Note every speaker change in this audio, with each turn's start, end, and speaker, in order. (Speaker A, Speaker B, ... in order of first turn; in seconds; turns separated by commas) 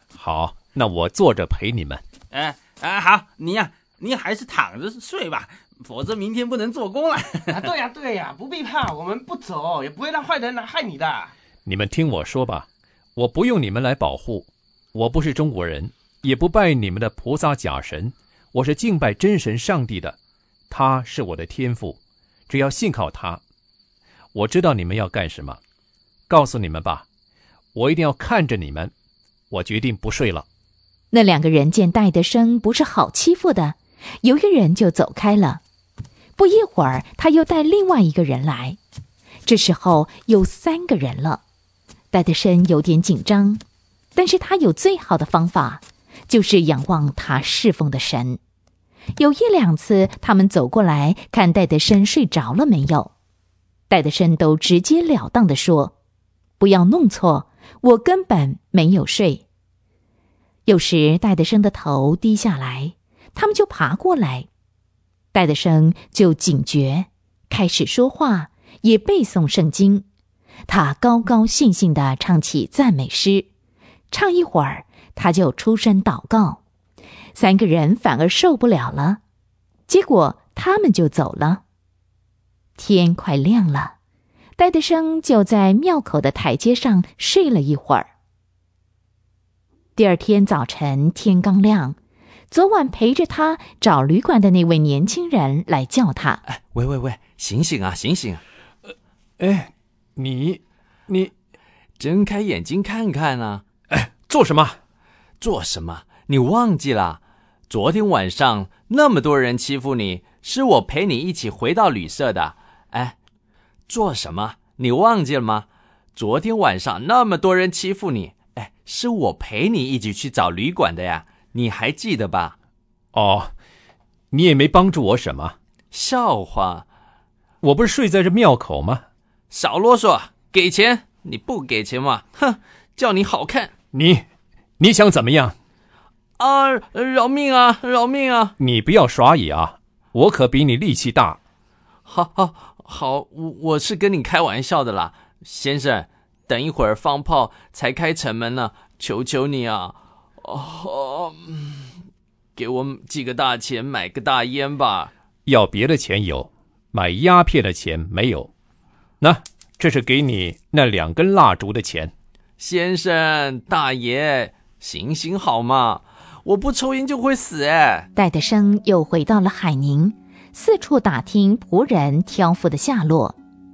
Speaker A: 0.1-2.0, Speaker B: 2.3-7.7, Speaker C: 7.8-11.3, Speaker A: 11.7-20.2, Speaker A: 20.7-23.4, Speaker A: 24.3-25.6, Speaker A: 26.3-27.1, Speaker A: 27.7-28.9, Speaker A: 29.5-30.5, Speaker D: 31.1-35.6, Speaker D: 36.4-38.8, Speaker D: 39.5-41.4, Speaker D: 42.1-43.6, Speaker D: 44.1-48.4, Speaker D: 49.2-53.1, Speaker D: 53.9-56.0, Speaker D: 56.6-59.5, Speaker D: 60.7-64.5, Speaker D: 65.3-70.1, Speaker D: 70.7-73.5, Speaker D: 74.1-76.6, Speaker D: 77.3-79.2, Speaker D: 79.9-81.6, Speaker D: 82.8-84.0, Speaker D: 84.6-88.1, Speaker D: 90.0-92.0, Speaker D: 92.5-96.4, Speaker E: 96.5-98.4, Speaker A: 99.4-101.3, Speaker E: 102.0-103.6, Speaker A: 103.9-104.8, Speaker E: 105.4-113.2, Speaker E: 113.9-122.6, Speaker A: 123.1-123.5, Speaker A: 124.3-125.6, Speaker E: 125.9-126.8, Speaker A: 127.6-129.0, Speaker E: 129.5-133.7, Speaker A: 133.9-134.2, Speaker A: 134.8-135.6, Speaker E: 136.4-138.5, Speaker A: 138.6-141.4, Speaker E: 142.1-151.9, Speaker E: 152.6-155.1, Speaker A: 155.5-158.5, Speaker A: 159.2-162.1, Speaker E: 162.6-168.1, Speaker D: 168.2-173.4